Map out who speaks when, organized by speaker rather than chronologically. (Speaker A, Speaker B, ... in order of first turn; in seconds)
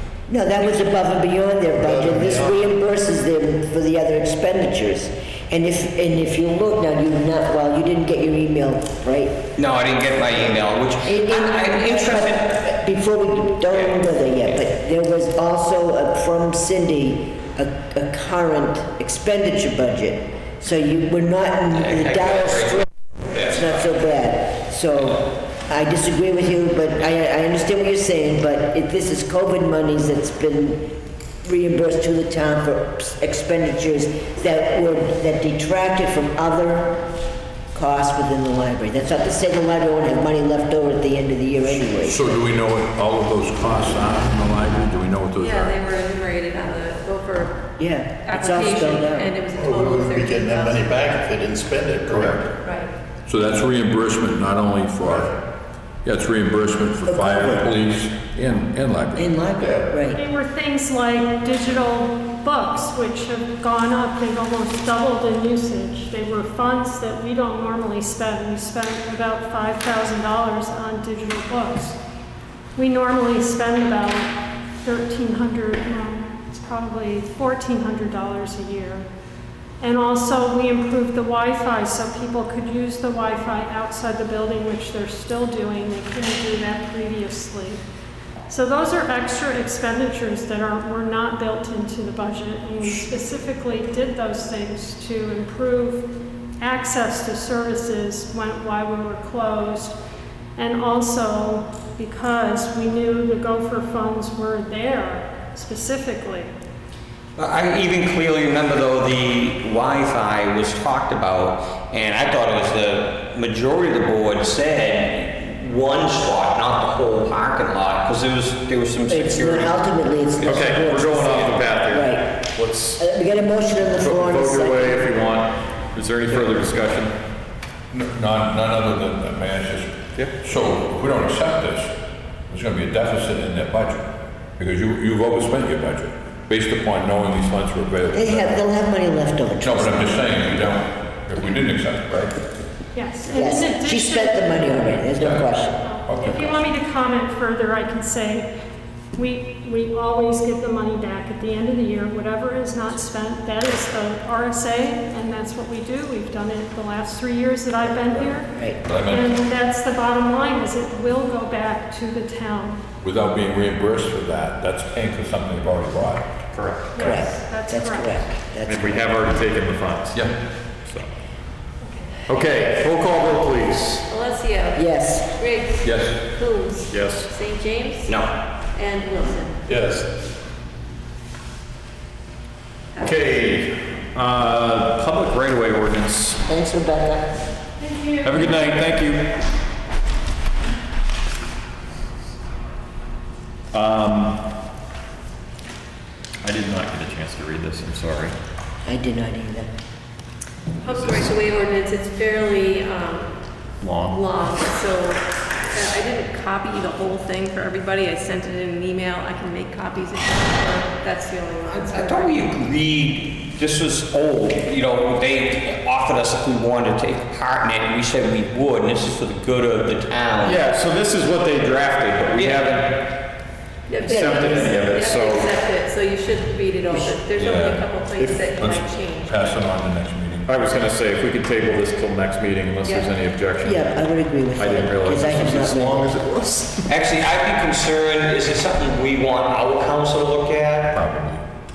Speaker A: 0.3-9.5, 11.0-22.9, 23.5-37.1, 37.7-42.4, 47.8-49.4, 57.1-57.7, 59.1-60.2, 119.1-122.4, 123.0-125.1, 138.1-140.3, 143.3-145.8, 157.8-158.8, 167.0-169.2, 174.8-175.3, 186.5-187.3, 198.8-199.7, 224.1-224.6, 233.6-236.7
Speaker B: 1.8-2.8, 49.5-52.5, 55.0-55.3
Speaker C: 9.6-12.6, 21.8-23.9, 107.4-119.8, 178.1-178.3, 211.7-220.6, 222.4-222.6, 236.9-241.0
Speaker D: 42.0-45.8, 52.1-52.4, 53.3-55.4, 56.0-59.4, 127.9-132.0, 132.5-138.6, 139.6-142.4, 145.2-146.6, 158.8-159.3, 163.0-166.3, 175.8-176.2, 179.7-180.0, 183.0-183.7, 227.3-228.0, 228.6-230.5, 240.9-241.4
Speaker E: 45.4-47.7, 48.2-50.9, 52.6-52.9, 171.8-172.4, 174.1-179.6, 183.0-183.3, 200.8-203.4, 204.1-212.4, 223.9-229.7, 232.8-233.1
Speaker F: 60.1-72.0, 72.8-79.1, 79.8-87.8, 88.5-96.1, 96.6-100.0, 100.6-106.5, 142.9-145.1, 145.8-148.5, 149.2-158.5, 159.1-162.8, 166.9-168.2, 187.8-188.6
Speaker G: 120.4-123.0, 124.0-127.2, 166.5-167.1, 168.7-170.3, 170.8-171.1, 172.3-174.0, 176.9-177.3, 184.0-186.4, 188.2-189.3, 193.7-194.4, 196.4-198.4, 203.8-204.2, 220.4-223.1, 224.0-225.5, 228.2-228.6, 230.5-234.0, 234.6-236.6